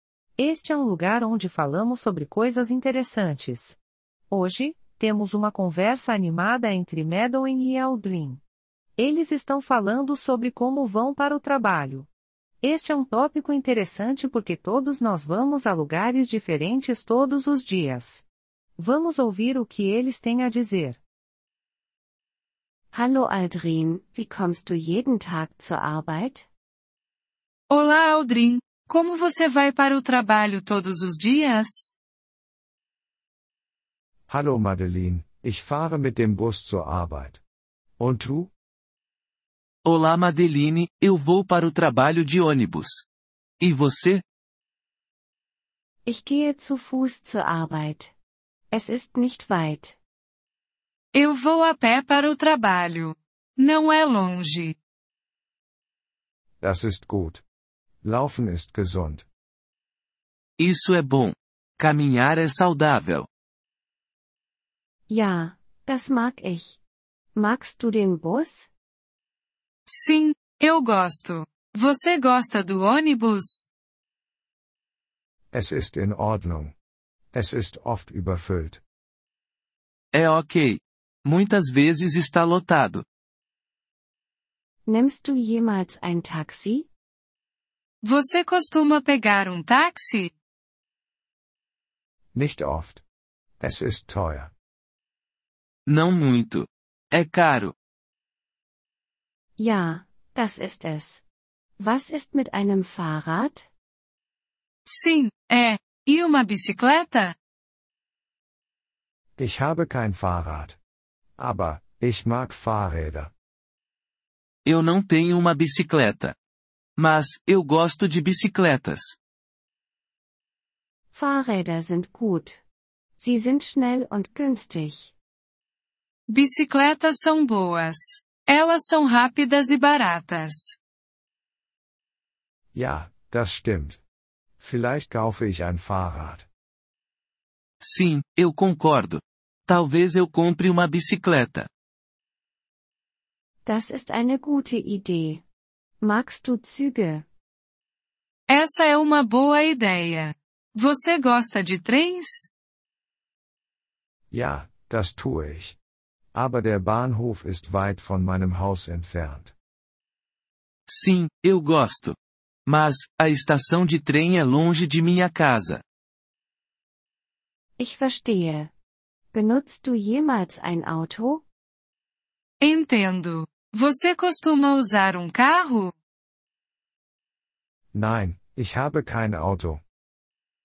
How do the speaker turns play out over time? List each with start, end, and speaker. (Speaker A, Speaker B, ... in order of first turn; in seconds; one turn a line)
Speaker A: 0.4-3.8
Speaker A: 4.3-8.4
Speaker A: 9.0-12.1
Speaker A: 12.6-18.2
Speaker A: 18.8-21.0
Speaker B: 22.9-26.5
Speaker C: 27.7-31.9
Speaker D: 34.3-37.4
Speaker D: 38.0-38.5
Speaker E: 39.8-43.0
Speaker E: 43.6-44.2
Speaker B: 46.0-48.1
Speaker B: 48.7-50.0
Speaker C: 51.1-54.8
Speaker D: 56.6-57.4
Speaker D: 58.0-59.2
Speaker E: 60.6-63.3
Speaker B: 65.1-66.8
Speaker B: 67.3-68.7
Speaker C: 69.9-73.7
Speaker D: 75.5-76.7
Speaker D: 77.3-78.8
Speaker E: 80.1-83.0
Speaker B: 84.9-86.9
Speaker C: 88.0-90.3
Speaker D: 92.3-93.0
Speaker D: 93.6-94.5
Speaker E: 95.9-97.7
Speaker B: 99.6-101.2
Speaker B: 101.8-103.7
Speaker C: 104.9-107.3
Speaker D: 109.4-110.8
Speaker D: 111.4-113.3
Speaker E: 114.6-116.3
Speaker E: 117.0-119.2
Speaker B: 121.1-122.6
Speaker B: 123.2-125.1
Speaker C: 126.3-130.8
Speaker D: 132.7-134.0
Speaker D: 134.6-136.5
Speaker E: 137.8-141.7
Speaker B: 143.7-145.4
Speaker B: 146.0-147.2
Speaker C: 148.5-152.5
Speaker D: 154.3-155.8
Speaker D: 156.3-159.5
Speaker E: 160.9-165.8
Speaker B: 167.8-168.7
Speaker B: 169.3-171.4
Speaker C: 172.6-175.9
Speaker D: 177.9-179.8